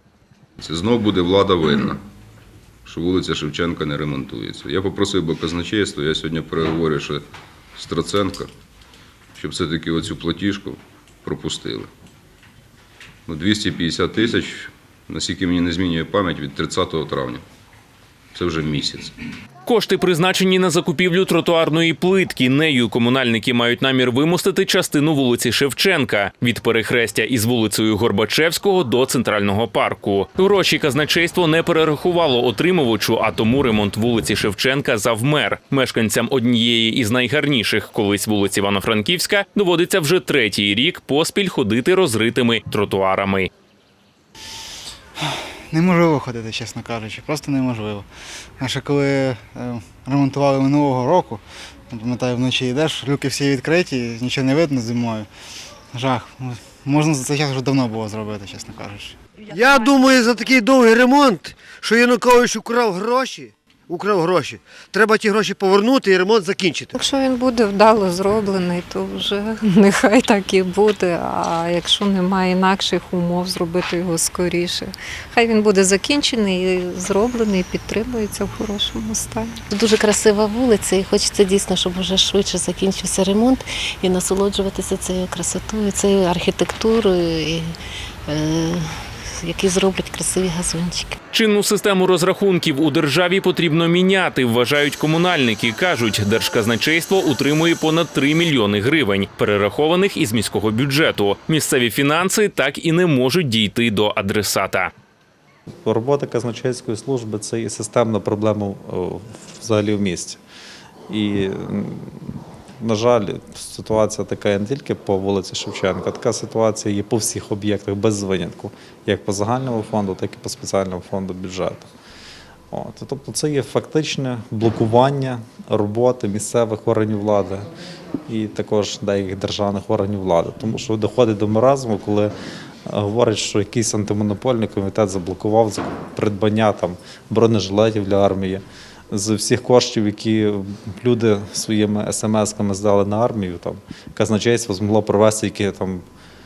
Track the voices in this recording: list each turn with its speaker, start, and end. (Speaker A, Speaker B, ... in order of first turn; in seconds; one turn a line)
Speaker A: 0.6-2.0
Speaker A: 2.9-7.2
Speaker A: 7.8-8.5
Speaker A: 9.3-11.9
Speaker A: 13.3-17.4
Speaker A: 18.3-19.1
Speaker B: 19.6-43.5
Speaker C: 45.7-48.0
Speaker C: 48.6-55.3
Speaker C: 55.9-59.2
Speaker D: 59.5-66.9
Speaker E: 66.9-79.6
Speaker F: 79.7-87.7
Speaker F: 88.3-91.2
Speaker B: 91.3-104.9
Speaker G: 105.8-110.4
Speaker G: 111.1-121.9
Speaker G: 122.7-127.7
Speaker G: 128.3-132.3
Speaker G: 132.8-146.0